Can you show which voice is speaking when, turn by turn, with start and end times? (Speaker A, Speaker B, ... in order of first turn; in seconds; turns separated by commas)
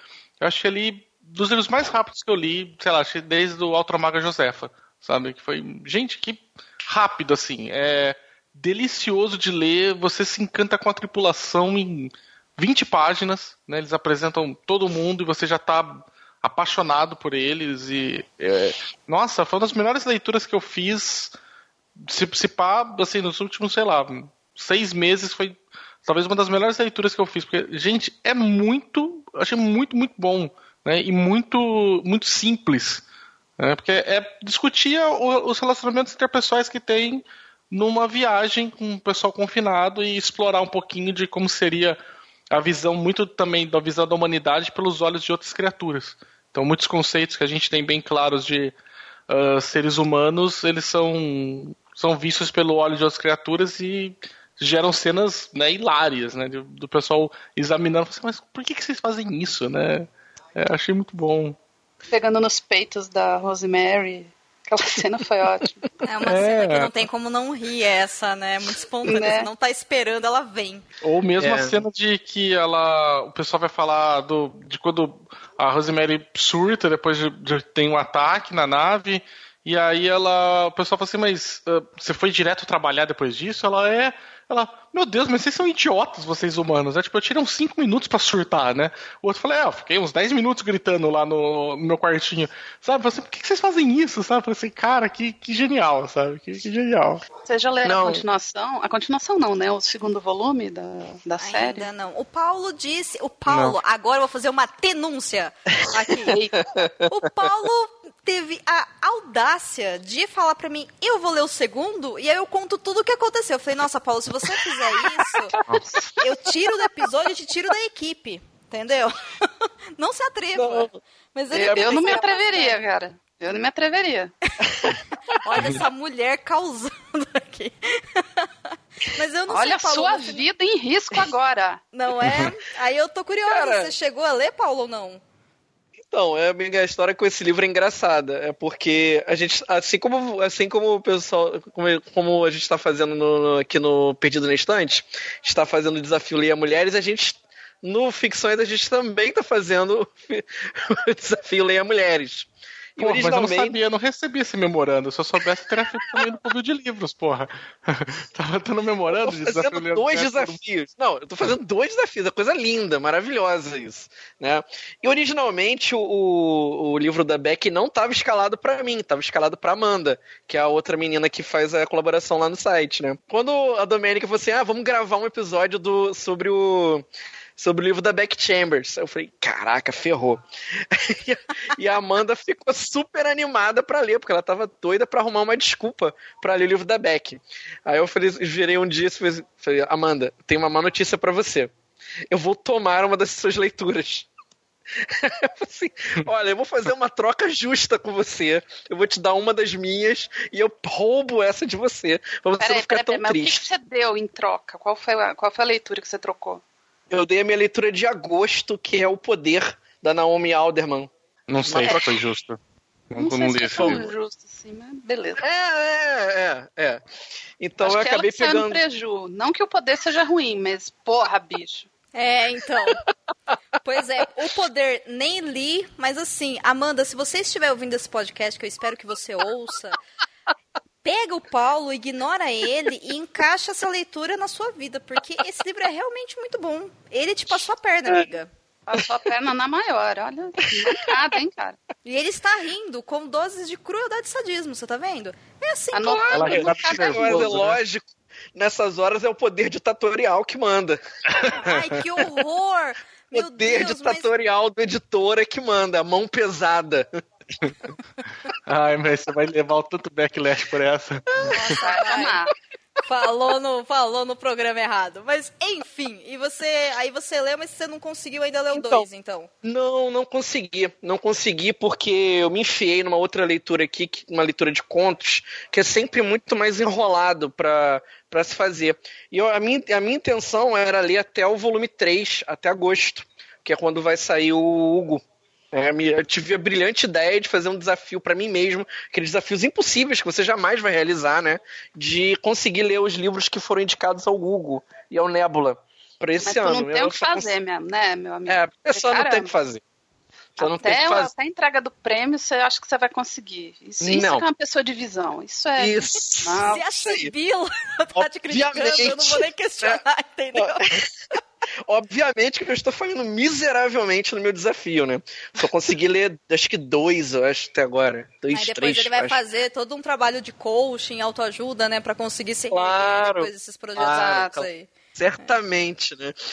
Speaker A: 0.4-21.3, Speaker A: 22.1-33.0, Speaker A: 33.6-42.0, Speaker A: 42.5-48.7, Speaker A: 49.3-61.6, Speaker B: 62.1-65.8, Speaker C: 66.0-70.8, Speaker A: 66.2-66.9, Speaker B: 69.0-69.5, Speaker A: 71.0-97.2, Speaker D: 71.4-71.8, Speaker B: 97.4-101.9, Speaker D: 97.8-98.2, Speaker C: 101.4-106.4, Speaker A: 103.5-103.7, Speaker B: 106.3-106.5, Speaker D: 106.6-107.3, Speaker C: 107.1-115.5, Speaker B: 115.5-116.1, Speaker C: 116.2-122.8, Speaker D: 120.5-120.9, Speaker B: 121.5-124.3, Speaker D: 121.6-122.1, Speaker D: 124.6-125.0, Speaker C: 125.4-128.5, Speaker C: 129.1-130.4, Speaker B: 129.5-131.8, Speaker C: 131.9-135.2, Speaker D: 133.4-133.9, Speaker D: 136.1-153.8, Speaker A: 153.0-160.6, Speaker D: 155.8-156.2, Speaker D: 159.1-177.1, Speaker D: 177.6-191.7, Speaker D: 192.3-194.3, Speaker D: 194.9-203.7, Speaker B: 202.6-206.6, Speaker D: 207.1-211.1, Speaker A: 211.5-212.6, Speaker D: 211.6-212.1, Speaker A: 213.1-214.1, Speaker B: 213.1-215.4, Speaker D: 213.8-214.0, Speaker D: 215.4-217.0, Speaker D: 217.6-218.8, Speaker B: 217.8-221.9, Speaker C: 222.1-223.0, Speaker C: 223.8-230.0, Speaker C: 231.0-238.5, Speaker B: 238.9-241.8, Speaker D: 240.8-241.1, Speaker C: 242.0-246.5, Speaker B: 245.9-247.6, Speaker D: 246.1-251.0, Speaker A: 246.3-247.8, Speaker C: 251.5-254.3, Speaker D: 253.3-257.1, Speaker A: 258.7-261.5, Speaker C: 261.5-262.4, Speaker B: 261.6-262.5, Speaker C: 263.0-269.5, Speaker D: 268.7-269.1, Speaker D: 269.6-297.5, Speaker B: 296.4-299.5, Speaker D: 298.5-299.8, Speaker D: 300.6-301.3, Speaker B: 300.6-306.8, Speaker D: 304.0-304.4, Speaker D: 305.8-307.3, Speaker C: 306.6-311.0, Speaker D: 308.1-310.0, Speaker D: 310.6-311.1, Speaker D: 311.9-319.4, Speaker C: 318.5-325.5, Speaker D: 322.7-326.3, Speaker B: 324.1-324.4